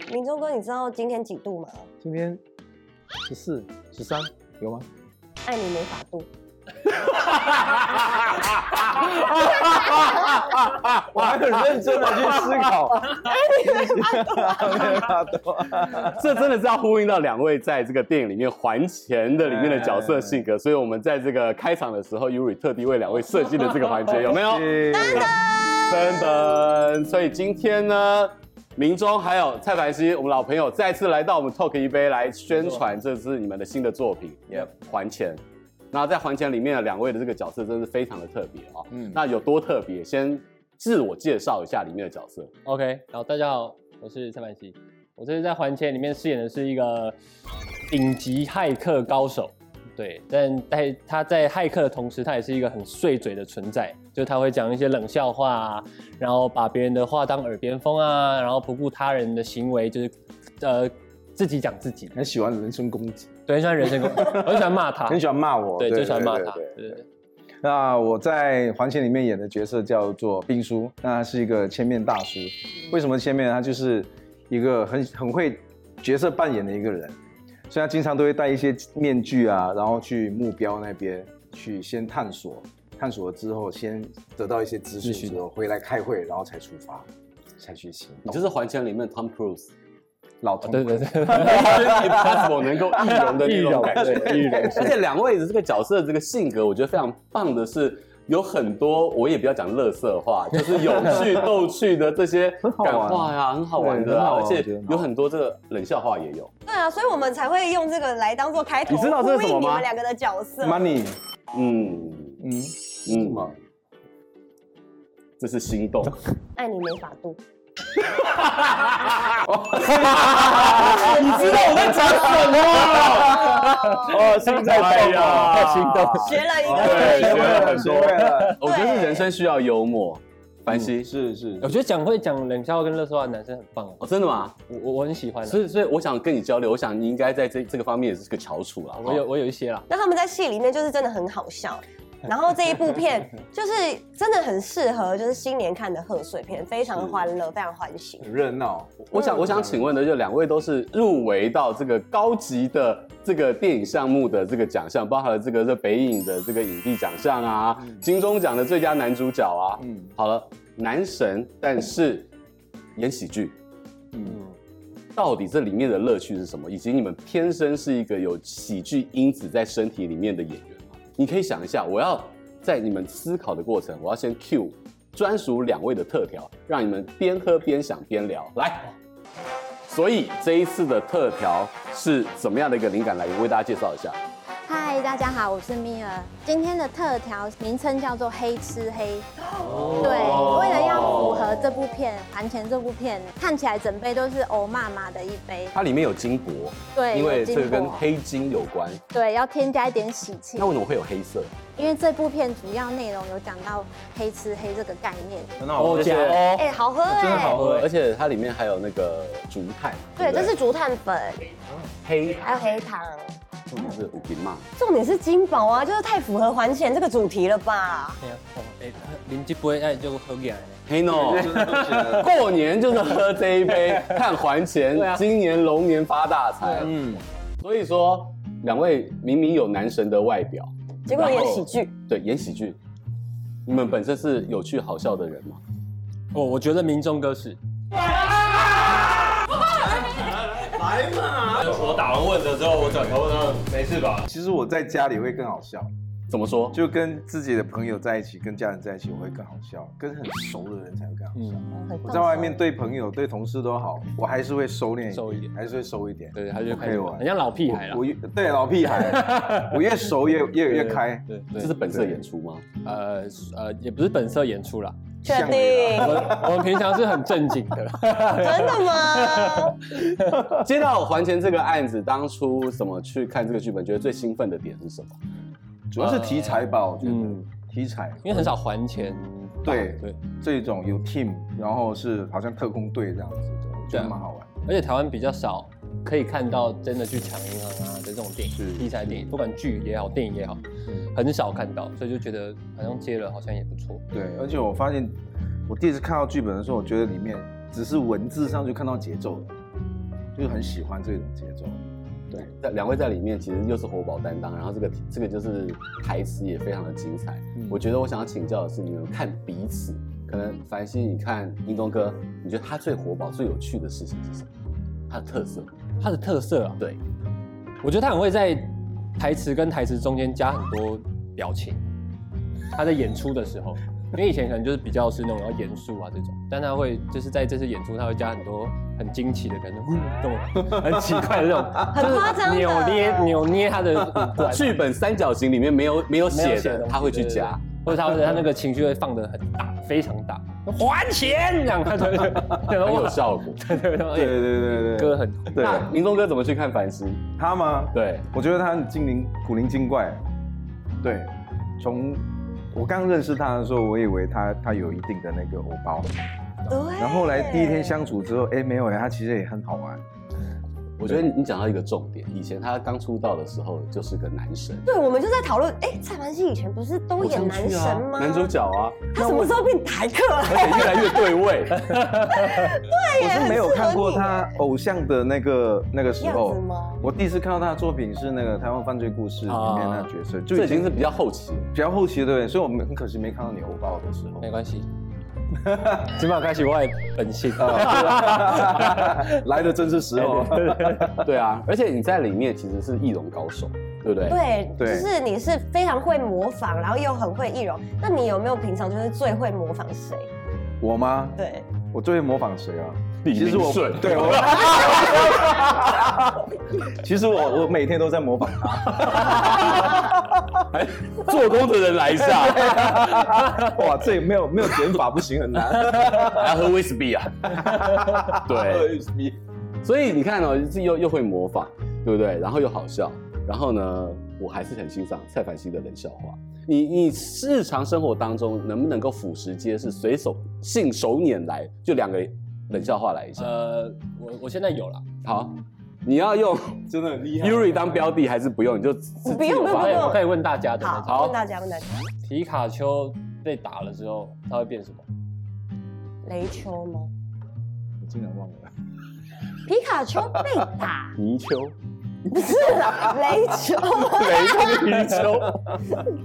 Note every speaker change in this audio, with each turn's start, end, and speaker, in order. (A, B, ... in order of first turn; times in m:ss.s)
0:00.1-0:01.9 A
0:02.0-0:02.4 B
0:03.3-0:04.9 B
0:05.4-0:06.3 A
0:06.9-0:12.6 C
0:11.1-0:16.2 B
0:13.2-0:15.0 A
0:16.0-0:25.3 C
0:19.4-0:20.4 B
0:24.1-0:25.3 B
0:24.9-0:25.4 A
0:25.9-0:35.4 C
0:32.5-0:32.8 D
0:35.9-0:42.5 C
0:38.9-0:39.2 B
0:42.6-0:47.2 D
0:47.9-1:02.2 D
1:02.1-1:03.3 B
1:03.5-1:05.2 D
1:03.8-1:06.8 B
1:05.8-1:07.0 D
1:07.6-1:17.2 B
1:17.7-1:27.1 B
1:25.0-1:25.4 D
1:27.6-1:28.5 B
1:28.3-1:29.7 C
1:30.4-1:34.9 B
1:30.6-1:32.4 D
1:31.3-1:46.5 C
1:33.0-1:34.9 D
1:42.6-1:45.1 B
1:46.7-1:50.9 A
1:48.9-1:49.9 C
1:50.6-1:51.2 B
1:51.5-1:52.4 C
1:52.4-1:53.6 B
1:53.1-1:53.5 C
1:55.4-1:56.2 C
1:56.6-1:57.4 A
1:58.3-1:59.2 C
1:59.4-2:05.8 B
2:00.4-2:11.1 C
2:00.8-2:04.3 A
2:05.2-2:08.5 D
2:06.2-2:07.8 A
2:06.6-2:08.6 B
2:08.6-2:09.3 A
2:11.0-2:11.8 B
2:11.6-2:14.0 D
2:14.0-2:14.6 C
2:14.7-2:15.6 D
2:15.4-2:19.2 C
2:19.0-2:19.9 D
2:19.9-2:28.3 A
2:28.2-2:29.9 B
2:29.1-2:42.3 C
2:39.8-2:40.1 B
2:43.0-2:43.6 C
2:44.1-2:44.4 B
2:44.3-2:44.5 D
2:45.2-2:58.9 C
2:59.9-3:04.2 C
3:04.7-3:09.2 E
3:09.6-3:11.7 C
3:10.0-3:15.6 E
3:15.7-3:19.0 C
3:17.0-3:18.0 E
3:19.2-3:20.7 E
3:20.6-3:21.6 C
3:21.8-3:25.5 E
3:25.6-3:26.4 B
3:25.8-3:26.7 D
3:26.0-3:26.4 C
3:26.6-3:27.6 A
3:27.0-3:27.9 B
3:27.3-3:27.9 D
3:27.5-3:30.6 C
3:30.2-3:31.5 A
3:32.0-3:32.5 C
3:32.4-3:33.4 A
3:33.7-3:34.6 C
3:34.8-3:38.2 A
3:38.2-3:42.0 D
3:40.9-3:47.0 C
3:41.1-3:42.4 B
3:43.7-3:44.3 D
3:44.9-3:45.3 D
3:46.6-3:46.9 D
3:46.8-3:47.2 B
3:47.6-3:52.8 C
3:51.1-3:51.9 A
3:53.7-3:55.6 C
3:56.3-3:57.6 D
4:01.0-4:03.8 F
4:04.2-4:05.9 B
4:06.3-4:06.8 C
4:06.7-4:21.3 B
4:11.4-4:11.6 D
4:11.7-4:12.7 A
4:15.1-4:15.5 D
4:16.3-4:18.0 D
4:18.9-4:21.7 D
4:21.6-4:22.6 C
4:21.9-4:22.2 B
4:22.8-4:25.0 D
4:25.2-4:26.4 A
4:25.2-4:26.7 B
4:25.9-4:30.5 D
4:28.3-4:29.8 A
4:30.4-4:35.2 C
4:35.9-4:38.5 B
4:36.0-4:37.4 D
4:38.2-4:40.2 D
4:39.6-4:44.7 B
4:43.9-4:50.6 D
4:48.5-4:49.2 B
4:51.1-4:54.0 D
4:54.1-4:55.2 B
4:55.7-4:59.6 B
5:00.4-5:01.8 B
5:02.3-5:14.5 C
5:07.6-5:07.8 B
5:15.1-5:15.7 C
5:16.0-5:16.8 D
5:17.8-5:21.8 D
5:22.7-5:34.8 D
5:30.7-5:31.2 B
5:31.9-5:33.4 A
5:34.3-5:37.6 C
5:36.2-5:45.9 D
5:42.7-5:43.6 C
5:44.1-5:46.0 B
5:45.6-5:47.2 C
5:47.4-5:50.2 B
5:47.9-5:48.3 C
5:51.0-5:56.1 B
5:56.7-5:58.1 A
5:57.0-6:00.0 B
6:01.0-6:04.9 C
6:04.8-6:08.5 A
6:07.2-6:09.6 C
6:09.1-6:11.4 A
6:10.4-6:12.0 C
6:11.8-6:12.6 D
6:12.3-6:14.5 A
6:13.2-6:21.1 B
6:16.2-6:17.1 A
6:19.5-6:20.1 D
6:20.5-6:21.7 C
6:21.7-6:24.5 B
6:24.4-6:24.9 D
6:25.6-6:26.0 B
6:26.0-6:29.4 D
6:27.6-6:31.3 B
6:30.2-6:31.2 D
6:31.2-6:34.4 C
6:34.3-6:40.3 A
6:34.8-6:35.1 B
6:40.8-6:46.1 B
6:41.4-6:41.7 A
6:43.2-6:46.0 C
6:46.8-6:50.5 B
6:49.0-6:50.1 C
6:50.7-6:53.7 C
6:52.4-6:56.7 B
6:56.0-6:59.0 C
6:57.5-6:59.4 B
6:59.8-7:13.5 C
7:13.4-7:15.0 D
7:15.2-7:16.9 C
7:16.9-7:18.2 B
7:17.4-7:20.2 C
7:19.2-7:20.2 A
7:19.6-7:21.3 D
7:20.8-7:22.0 A
7:21.1-7:21.4 C
7:22.3-7:25.1 D
7:26.2-7:27.1 A
7:28.0-7:28.7 B
7:29.7-7:31.2 A
7:31.2-7:31.7 C
7:32.3-7:35.1 A
7:34.0-7:35.8 C